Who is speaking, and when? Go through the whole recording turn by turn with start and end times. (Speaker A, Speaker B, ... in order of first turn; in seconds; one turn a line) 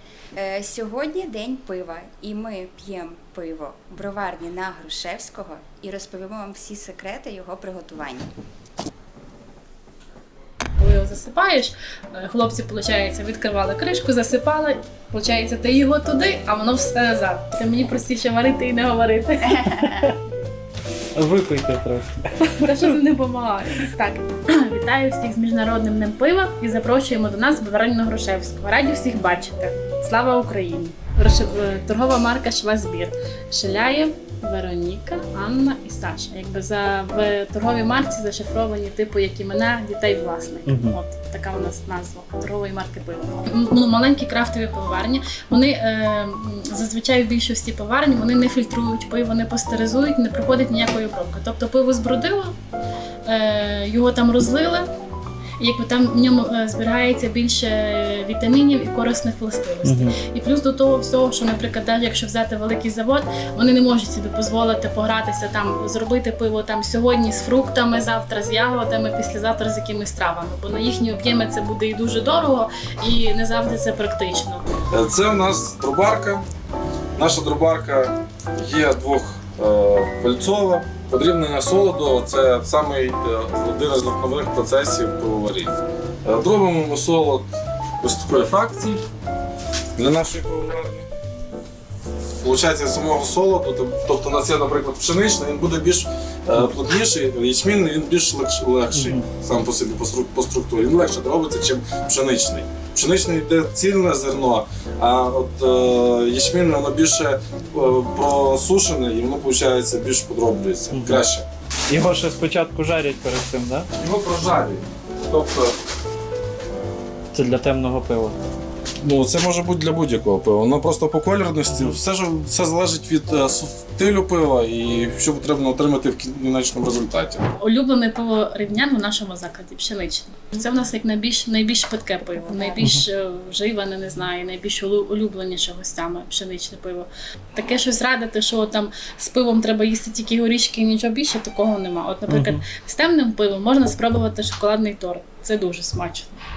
Speaker A: 0.3-8.3
Speaker B: 10.8-20.1
Speaker C: 21.1-22.8
Speaker B: 22.6-52.5
Speaker C: 40.7-41.0
Speaker B: 53.2-54.9
Speaker B: 55.6-74.7
Speaker C: 59.8-60.2
Speaker D: 74.9-76.4
Speaker D: 77.2-89.0
Speaker D: 90.0-91.1
Speaker D: 92.4-111.5
Speaker C: 98.9-99.2
Speaker C: 110.9-111.2
Speaker C: 111.9-113.9
Speaker D: 114.0-115.8
Speaker C: 117.3-118.4
Speaker D: 119.0-127.4
Speaker B: 127.6-146.3
Speaker C: 142.3-142.6